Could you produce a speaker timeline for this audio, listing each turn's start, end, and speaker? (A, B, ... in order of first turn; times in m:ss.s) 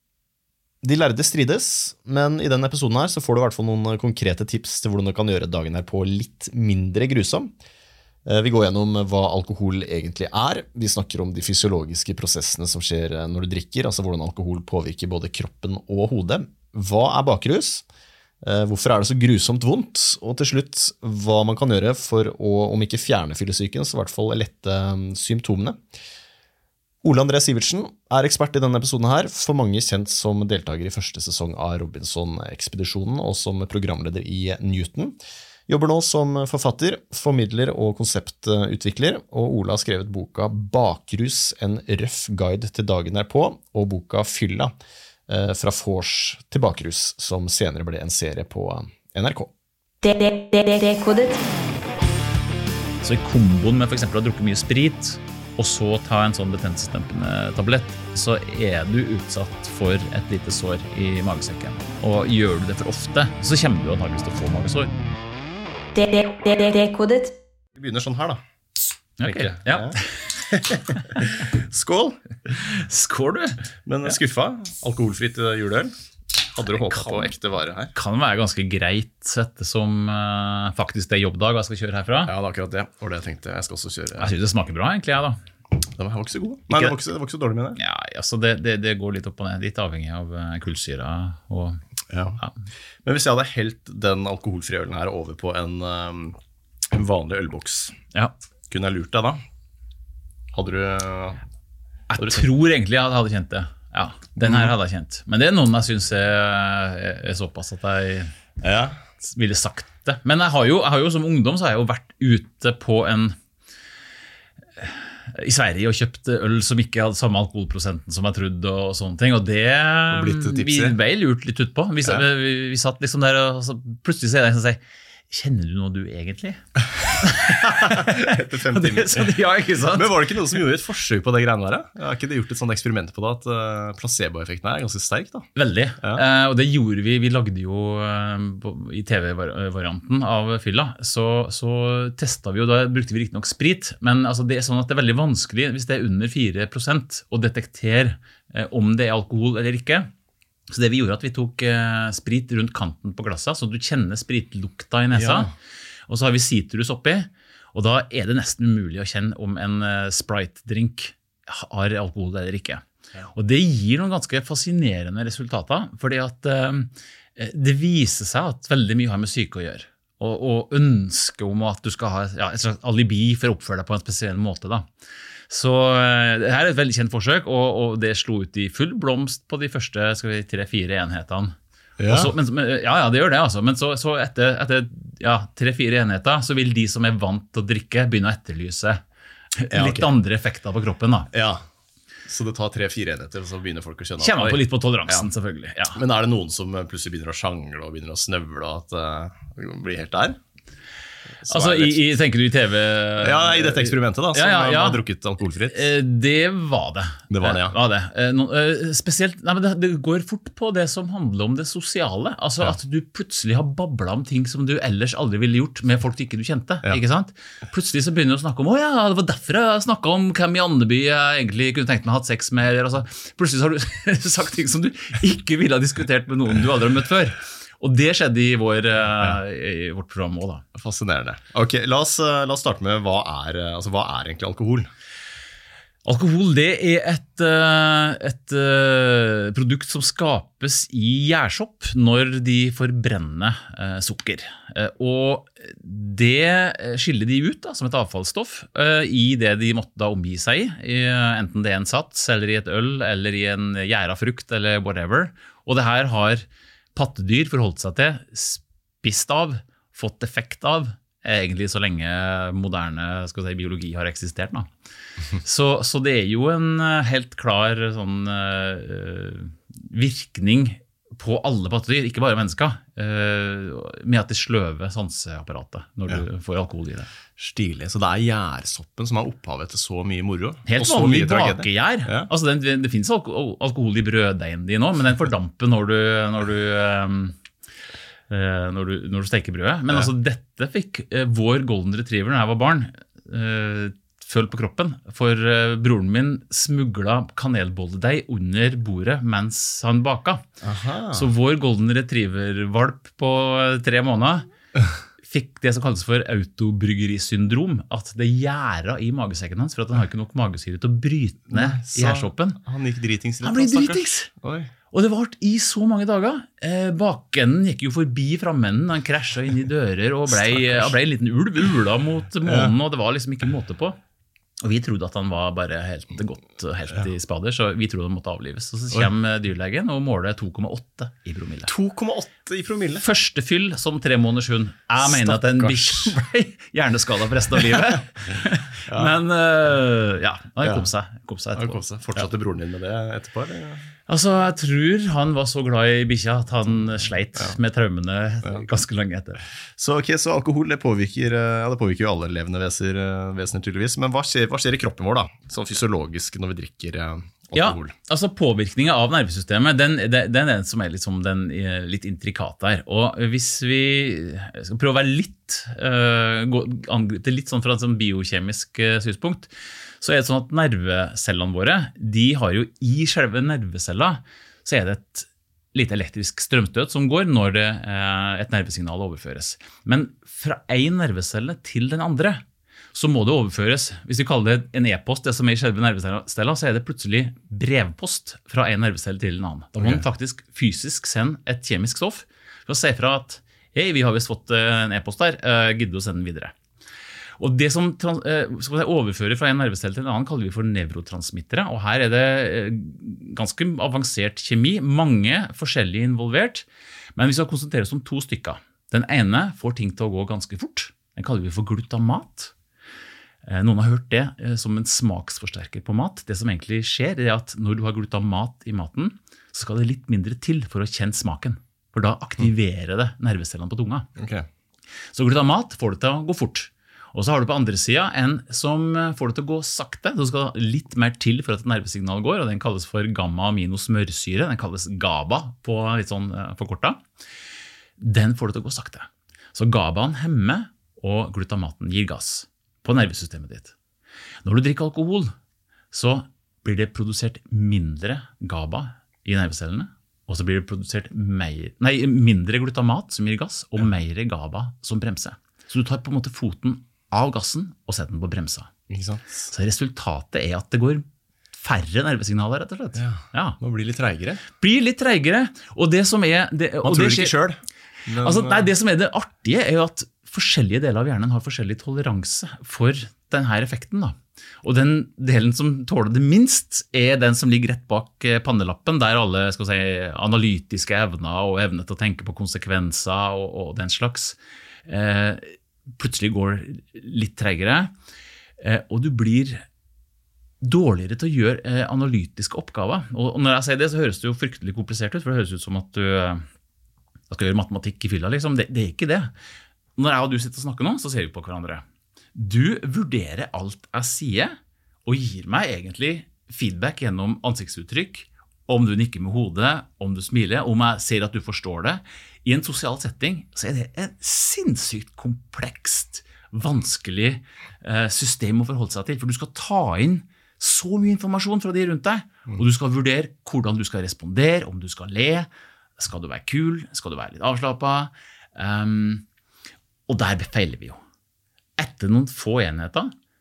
0:00.8-0:07.5 A
0:08.2-0:17.8 A
0:18.4-0:25.8 A
0:27.0-0:35.2 A
0:35.7-0:44.7 A
0:45.3-0:49.5 A
0:50.0-0:51.4 B
0:53.0-1:04.9 C
1:05.9-1:07.3 B
1:07.7-1:08.4 A
1:09.2-1:10.1 C
1:09.2-1:12.5 A
1:10.9-1:11.2 C
1:12.5-1:14.1 C
1:13.8-1:15.9 A
1:16.5-1:17.9 A
1:16.9-1:17.3 C
1:17.9-1:22.3 C
1:22.2-1:24.3 A
1:24.2-1:25.4 C
1:25.9-1:27.8 A
1:26.7-1:27.0 C
1:27.8-1:31.8 C
1:32.1-1:32.4 A
1:33.0-1:36.4 A
1:36.9-1:38.0 A
1:38.7-1:39.4 A
1:40.5-1:41.4 A
1:42.1-1:48.3 C
1:42.2-1:42.4 A
1:44.4-1:44.7 A
1:48.6-1:49.0 A
1:49.2-1:53.4 C
1:54.8-2:10.3 C
2:00.1-2:01.0 A
2:07.6-2:09.3 A
2:09.9-2:15.5 A
2:15.5-2:30.1 C
2:30.7-2:35.5 C
2:35.1-2:35.5 A
2:36.1-2:54.9 C
2:55.5-3:01.6 C
3:02.0-3:02.3 A
3:02.1-3:09.0 C
3:09.5-3:11.3 C
3:09.7-3:10.1 A
3:11.3-3:11.6 A
3:12.2-3:15.3 A
3:14.2-3:16.0 C
3:15.9-3:20.4 A
3:21.4-3:22.0 A
3:21.5-3:25.0 C
3:23.2-3:25.9 A
3:25.7-3:50.6 C
3:27.3-3:27.8 A
3:50.7-3:54.9 A
3:56.0-4:24.7 C
4:25.4-4:37.1 C
4:37.4-4:42.3 A
4:40.7-4:47.4 C
4:48.3-5:00.4 C
5:00.6-5:01.3 A
5:01.1-5:04.5 C
5:05.2-5:12.6 C
5:11.5-5:14.7 A
5:13.4-5:14.3 C
5:14.9-5:24.0 C
5:20.3-5:20.9 A
5:22.4-5:22.7 A
5:24.6-5:31.7 C
5:31.7-5:33.0 A
5:33.0-5:42.3 C
5:35.0-5:36.1 A
5:38.8-5:39.1 A
5:40.6-5:40.9 A
5:41.5-5:43.9 A
5:44.1-5:49.4 C
5:49.8-5:57.9 A
5:57.5-6:22.4 C
6:22.9-6:36.5 C
6:29.8-6:30.0 A
6:37.4-6:52.5 C
6:53.4-7:04.1 C
7:04.2-7:04.5 A
7:05.1-7:17.0 C
7:18.0-7:23.7 C
7:24.4-7:25.3 C
7:25.9-7:38.7 C
7:38.9-7:39.5 A
7:39.5-7:43.6 C
7:42.9-7:44.4 A
7:44.6-7:47.4 C
7:46.8-7:48.7 A
7:48.2-8:07.9 C
8:08.6-8:09.6 C
8:10.6-8:16.4 C
8:17.3-8:19.3 C
8:20.0-8:49.2 C
8:50.1-8:51.0 C
8:51.8-8:53.1 C